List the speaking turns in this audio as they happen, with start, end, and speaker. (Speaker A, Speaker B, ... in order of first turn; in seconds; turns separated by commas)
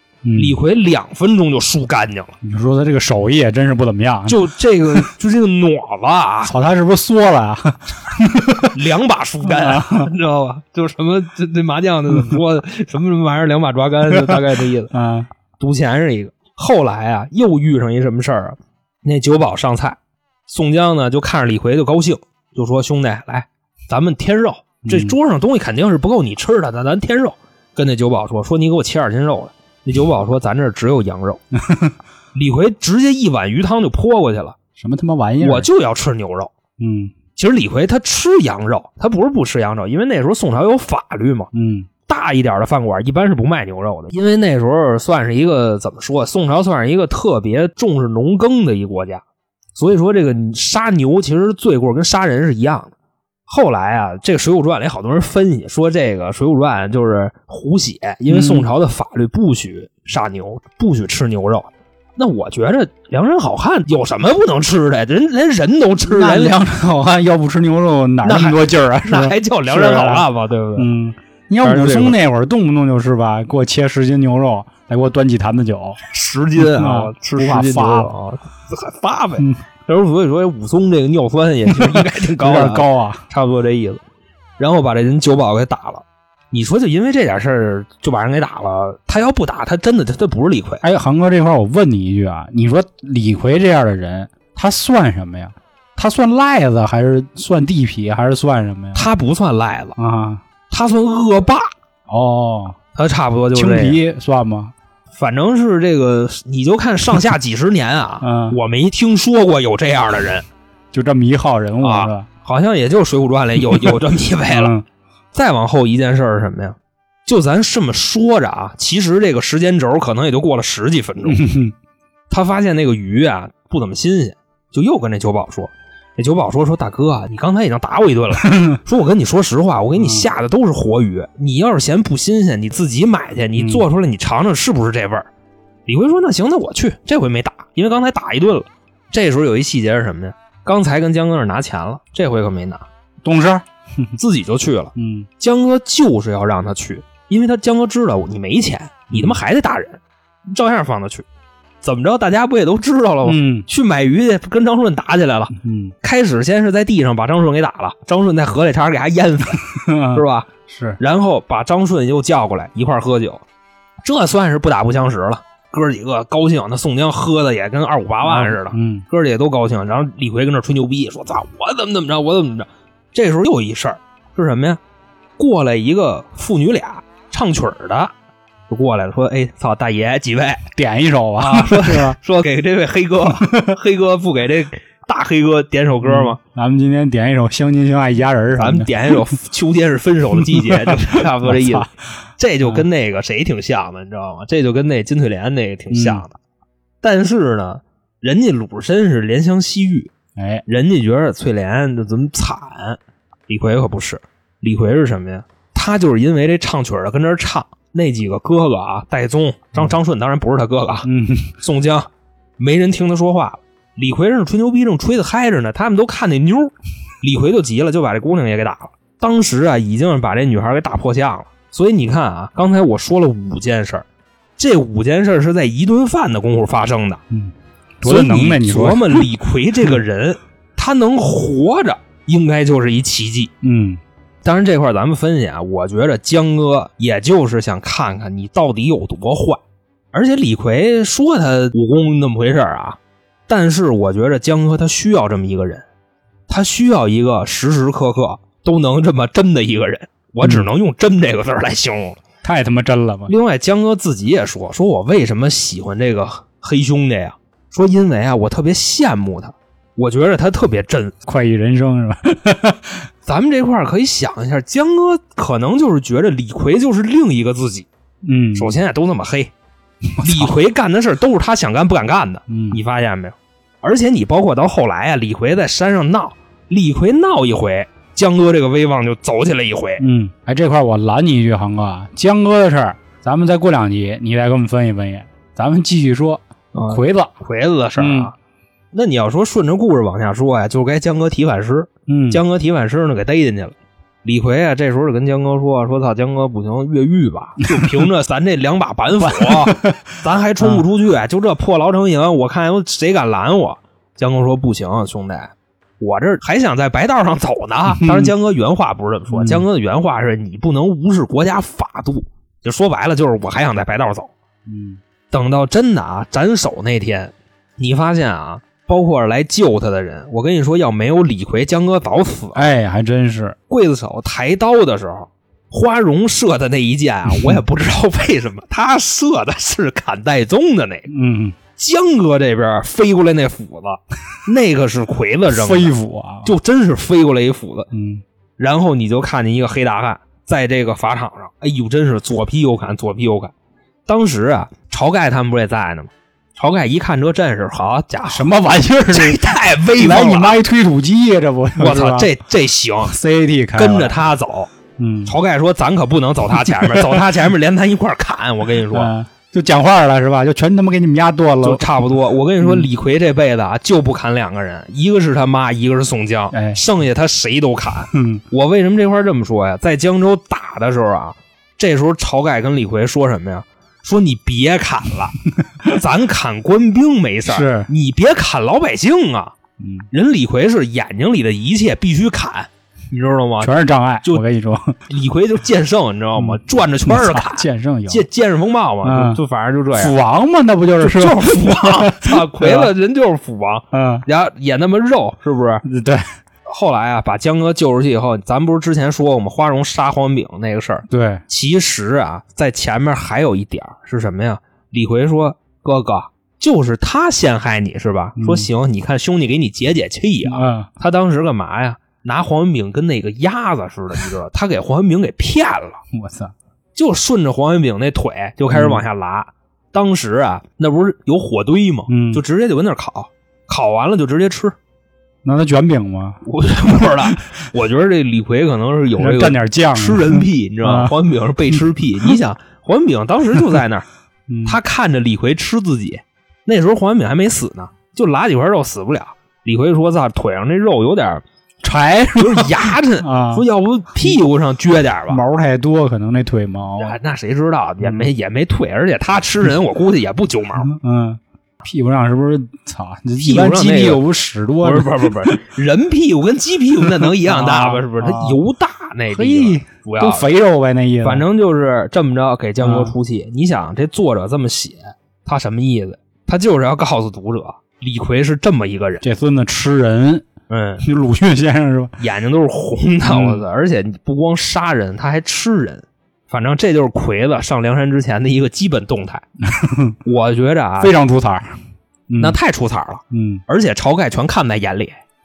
Speaker A: 0.2-0.6, Speaker B: 0.4-2.3, Speaker A: 2.4-4.4, Speaker B: 4.3-6.5, Speaker A: 6.5-8.8, Speaker B: 8.7-14.9, Speaker A: 9.4-10.1, Speaker A: 14.1-14.4, Speaker A: 14.9-15.3, Speaker B: 15.6-31.4, Speaker A: 24.9-25.2, Speaker A: 31.6-31.9, Speaker B: 32.3-34.6, Speaker A: 34.8-35.7, Speaker B: 35.4-36.5, Speaker A: 36.8-37.1, Speaker B: 37.4-41.5, Speaker A: 41.5-41.9, Speaker B: 42.1-49.2, Speaker B: 49.8-52.9, Speaker B: 53.5-66.6, Speaker A: 58.3-58.7, Speaker A: 66.1-70.2, Speaker B: 68.2-70.9, Speaker A: 70.8-76.0, Speaker B: 71.6-72.2, Speaker B: 76.0-84.0, Speaker A: 76.6-78.1, Speaker A: 81.7-83.2, Speaker B: 84.6-90.8, Speaker A: 90.8-99.1, Speaker B: 98.9-100.0, Speaker A: 100.0-100.4, Speaker B: 100.7-101.7, Speaker A: 102.1-102.8, Speaker B: 103.0-104.0, Speaker A: 103.5-104.7, Speaker B: 105.2-110.5, Speaker A: 108.2-108.6, Speaker A: 110.9-112.3, Speaker B: 111.8-114.8, Speaker A: 114.5-114.8, Speaker B: 115.3-121.4, Speaker A: 121.3-121.8, Speaker B: 122.3-135.3, Speaker A: 128.4-128.8, Speaker A: 130.0-130.3, Speaker A: 133.6-133.8, Speaker B: 135.9-142.9, Speaker A: 143.2-144.1, Speaker B: 144.2-151.3, Speaker A: 145.0-145.3, Speaker A: 149.1-149.4, Speaker B: 151.8-163.4, Speaker A: 153.2-153.7, Speaker A: 155.6-155.9, Speaker A: 159.7-161.0, Speaker B: 164.0-174.8, Speaker A: 168.2-169.1, Speaker B: 175.4-178.1, Speaker B: 178.7-180.7, Speaker A: 180.8-182.2, Speaker B: 181.4-186.4, Speaker A: 183.3-183.8, Speaker A: 186.0-189.3, Speaker B: 188.6-196.4, Speaker A: 190.4-191.9, Speaker A: 195.9-196.2, Speaker B: 197.0-200.1, Speaker A: 200.4-200.6, Speaker B: 200.7-224.1, Speaker A: 211.1-211.6, Speaker B: 224.6-227.2, Speaker A: 227.3-229.3, Speaker B: 228.0-233.5, Speaker A: 233.6-234.0, Speaker B: 234.4-239.6, Speaker B: 240.1-245.8, Speaker B: 246.5-252.2, Speaker A: 250.4-250.7, Speaker A: 252.4-253.3, Speaker B: 253.3-261.1, Speaker A: 261.2-263.0, Speaker B: 263.2-267.9, Speaker A: 268.2-268.8, Speaker B: 268.6-269.5, Speaker A: 270.1-270.5, Speaker B: 270.2-280.0, Speaker A: 272.5-272.8, Speaker A: 280.0-287.3, Speaker B: 286.7-288.3, Speaker A: 288.0-288.3, Speaker B: 288.9-314.3, Speaker A: 292.1-292.4, Speaker A: 299.2-300.1, Speaker A: 307.9-308.3, Speaker A: 309.3-309.7, Speaker A: 314.7-315.0, Speaker B: 315.3-322.7, Speaker A: 322.6-323.6, Speaker B: 323.7-331.1, Speaker A: 327.3-327.6, Speaker A: 331.1-331.6, Speaker B: 331.8-335.9, Speaker A: 335.5-336.5, Speaker B: 336.4-337.9, Speaker A: 337.9-338.2, Speaker B: 338.6-343.5, Speaker B: 344.1-348.6, Speaker A: 348.3-352.3, Speaker B: 349.1-350.6, Speaker B: 351.8-353.2, Speaker A: 353.1-354.2, Speaker B: 353.8-354.7, Speaker A: 355.0-355.4, Speaker B: 355.3-359.1, Speaker A: 356.7-357.3, Speaker A: 358.9-361.9, Speaker B: 361.6-375.4, Speaker A: 362.6-362.9, Speaker A: 366.5-366.8, Speaker A: 368.1-368.4, Speaker A: 375.6-376.0, Speaker B: 375.9-379.6, Speaker A: 377.5-377.9, Speaker A: 379.8-380.1, Speaker B: 380.1-383.7, Speaker A: 383.6-385.0, Speaker B: 385.1-390.2, Speaker A: 386.4-388.2, Speaker A: 389.0-389.4, Speaker A: 389.9-392.9, Speaker B: 391.0-395.8, Speaker A: 393.9-394.2, Speaker A: 395.9-396.2, Speaker B: 396.7-416.0, Speaker A: 401.1-401.4, Speaker A: 408.4-408.7, Speaker A: 410.4-410.9, Speaker A: 416.1-416.5, Speaker B: 417.0-424.8, Speaker A: 418.7-419.0, Speaker A: 422.1-422.4, Speaker A: 425.4-427.3, Speaker B: 426.4-434.1, Speaker A: 429.2-431.1, Speaker A: 431.7-432.3, Speaker A: 434.5-434.8, Speaker B: 434.6-441.4, Speaker A: 441.8-443.6, Speaker B: 442.4-445.4, Speaker A: 445.3-447.2, Speaker B: 447.0-450.9, Speaker A: 448.0-448.3, Speaker A: 450.9-455.6, Speaker B: 453.4-454.2, Speaker B: 454.8-460.5, Speaker A: 457.0-458.6, Speaker A: 459.3-461.4, Speaker B: 461.2-469.2, Speaker A: 462.8-463.1, Speaker A: 469.2-470.5, Speaker B: 470.7-471.1, Speaker A: 471.0-472.1, Speaker B: 472.2-479.4, Speaker A: 473.3-473.6, Speaker A: 479.6-480.2, Speaker B: 480.2-481.1, Speaker A: 481.0-481.8, Speaker A: 482.3-482.6, Speaker B: 482.4-485.1, Speaker A: 483.3-483.6